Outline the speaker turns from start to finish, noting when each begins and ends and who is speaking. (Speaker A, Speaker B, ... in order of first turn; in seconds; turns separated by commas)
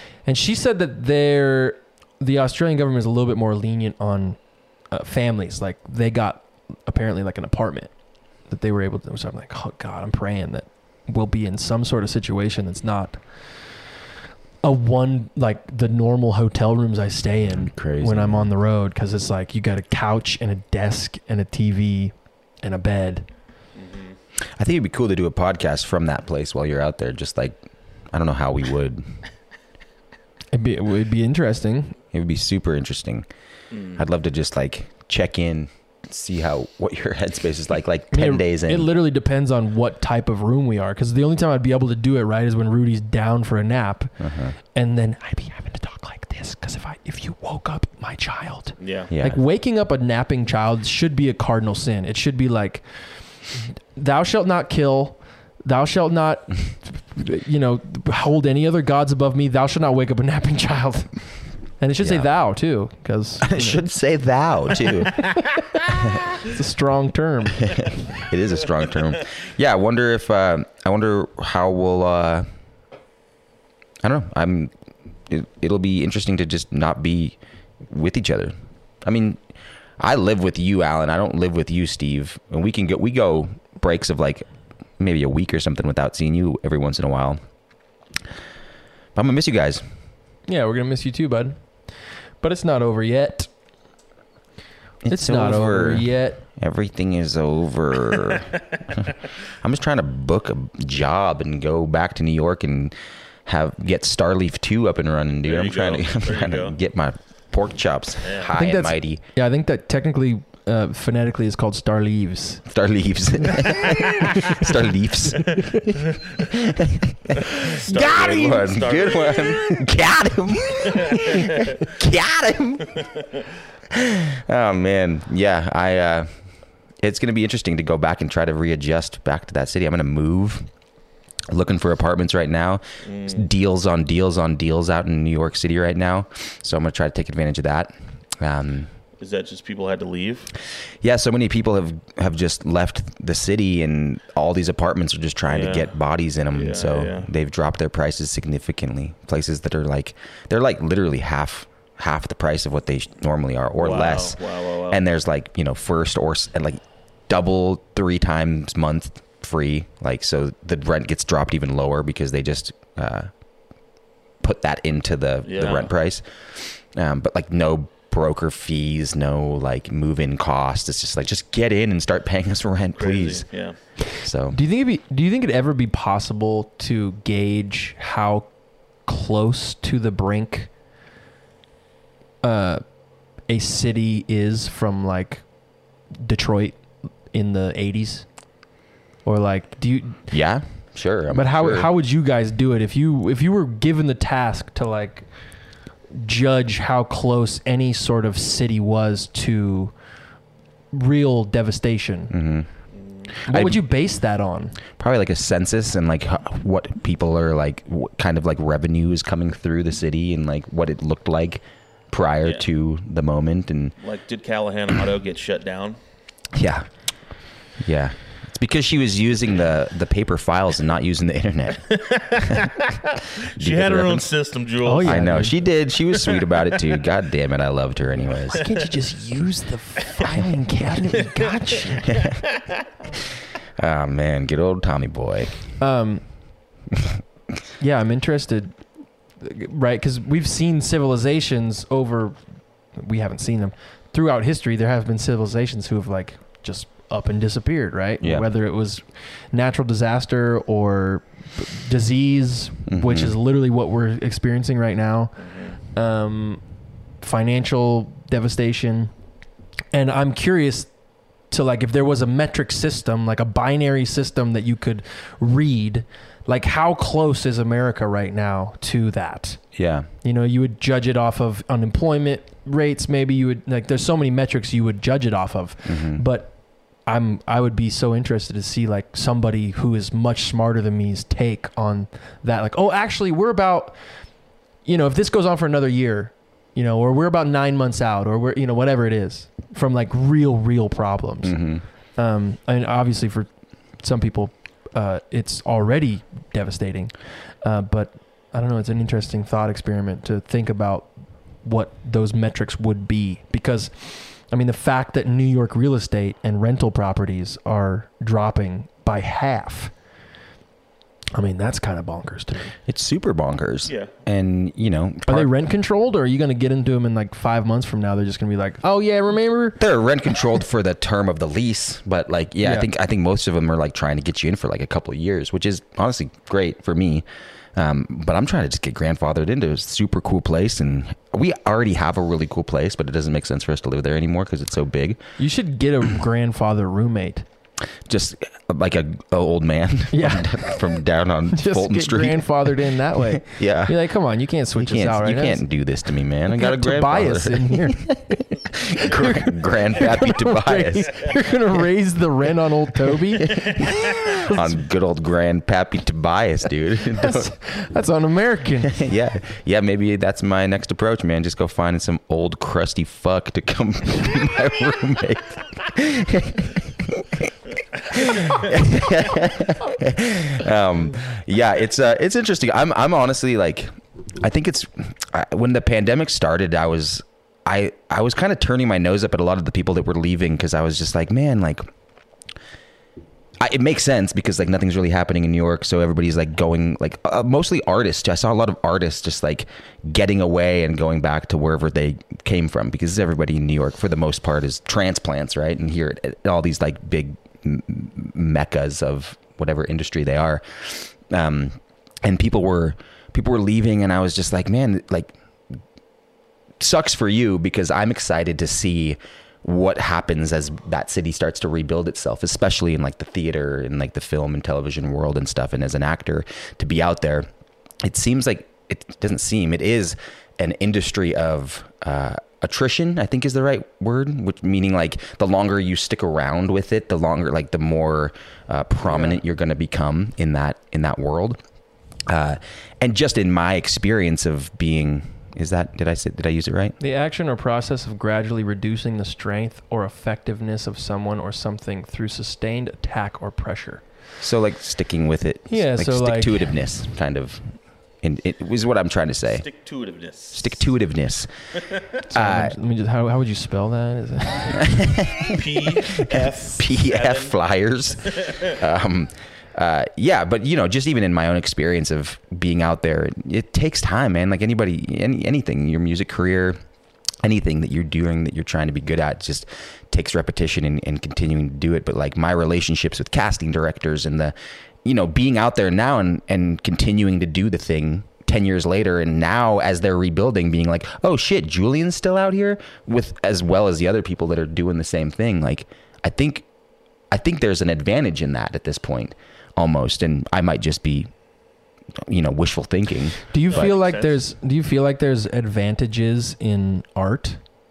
Speaker A: 0.2-4.4, Speaker A: 4.9-7.9, Speaker A: 8.5-13.2, Speaker A: 14.6-23.3, Speaker B: 17.6-18.5, Speaker C: 23.8-24.1, Speaker B: 24.6-27.6, Speaker B: 28.1-29.0, Speaker A: 30.5-32.0, Speaker B: 32.1-33.3, Speaker C: 33.7-34.0, Speaker B: 34.0-38.9, Speaker A: 38.1-44.1, Speaker B: 44.2-44.5, Speaker A: 44.7-52.8, Speaker C: 48.8-49.1, Speaker B: 49.1-49.4, Speaker A: 54.0-61.1, Speaker A: 61.8-63.8, Speaker B: 62.0-62.3, Speaker B: 63.4-65.3, Speaker B: 65.9-66.4, Speaker A: 66.4-67.7, Speaker B: 67.6-72.5, Speaker B: 74.0-74.7, Speaker B: 75.3-79.4, Speaker B: 80.0-84.5, Speaker B: 85.0-87.4, Speaker B: 89.2-89.8, Speaker A: 90.5-91.6, Speaker A: 92.4-93.5, Speaker B: 95.0-102.9, Speaker A: 95.1-96.4, Speaker B: 103.5-109.2, Speaker C: 105.4-106.8, Speaker C: 108.2-108.5, Speaker A: 108.5-112.6, Speaker B: 112.7-123.1, Speaker C: 117.4-119.9, Speaker C: 120.7-121.8, Speaker B: 123.9-126.3, Speaker B: 127.0-130.7, Speaker B: 131.5-138.9, Speaker C: 133.1-133.5, Speaker C: 139.2-140.5, Speaker B: 141.0-163.3, Speaker C: 145.5-145.9, Speaker C: 146.5-147.3, Speaker C: 153.8-155.0, Speaker B: 164.4-173.5, Speaker C: 165.4-165.9, Speaker C: 173.0-173.8, Speaker B: 174.2-174.6, Speaker A: 174.5-178.5, Speaker A: 179.1-180.7, Speaker A: 182.4-182.8, Speaker A: 183.5-185.4, Speaker A: 186.2-188.3, Speaker A: 189.2-190.3, Speaker B: 190.3-191.9, Speaker A: 191.3-195.3, Speaker A: 196.1-199.9, Speaker A: 200.9-202.3, Speaker B: 202.3-202.7, Speaker C: 203.0-203.3, Speaker B: 203.5-203.8, Speaker A: 203.5-204.8, Speaker B: 205.0-213.9, Speaker C: 214.0-216.0, Speaker B: 216.5-216.9, Speaker B: 217.8-222.7, Speaker C: 221.9-225.3, Speaker B: 223.6-224.3, Speaker A: 224.8-225.6, Speaker B: 225.0-228.6, Speaker C: 226.1-226.6, Speaker A: 228.5-232.2, Speaker B: 232.0-232.4, Speaker B: 233.8-235.6, Speaker A: 235.8-236.2, Speaker B: 236.9-237.2, Speaker A: 237.8-238.8, Speaker A: 239.4-242.4, Speaker A: 242.9-255.3, Speaker B: 248.2-248.5, Speaker B: 252.9-253.4, Speaker A: 255.9-256.6, Speaker A: 257.2-259.1, Speaker A: 259.9-260.9, Speaker A: 261.5-269.6, Speaker B: 269.8-270.1, Speaker A: 270.2-276.6, Speaker B: 275.9-276.2, Speaker A: 277.1-284.0, Speaker A: 284.9-291.6, Speaker B: 291.4-291.8, Speaker A: 292.2-293.5, Speaker A: 294.0-297.1, Speaker A: 297.6-301.1, Speaker A: 301.6-309.9, Speaker A: 311.3-312.8, Speaker B: 312.9-315.5, Speaker C: 313.9-314.1, Speaker A: 315.3-319.8, Speaker B: 319.8-335.2, Speaker A: 335.4-337.5, Speaker B: 338.1-344.0, Speaker A: 340.1-340.6, Speaker A: 341.5-345.6, Speaker B: 344.8-351.4, Speaker A: 346.5-354.7, Speaker B: 353.4-357.5, Speaker A: 357.2-359.0, Speaker B: 358.8-381.9, Speaker B: 383.6-405.3, Speaker B: 406.8-417.5, Speaker B: 418.0-431.6, Speaker A: 429.1-429.4, Speaker B: 432.3-437.0, Speaker A: 437.0-444.0, Speaker B: 444.4-447.6, Speaker A: 445.7-446.7, Speaker B: 448.2-449.6, Speaker C: 449.5-450.8, Speaker B: 450.5-451.5, Speaker A: 452.3-455.0, Speaker B: 452.3-452.7, Speaker B: 454.8-466.8, Speaker C: 455.4-457.5, Speaker C: 458.3-458.7, Speaker B: 467.4-474.5, Speaker B: 475.1-486.7, Speaker B: 487.3-491.3, Speaker B: 492.3-493.9, Speaker A: 493.5-497.6, Speaker C: 493.7-494.4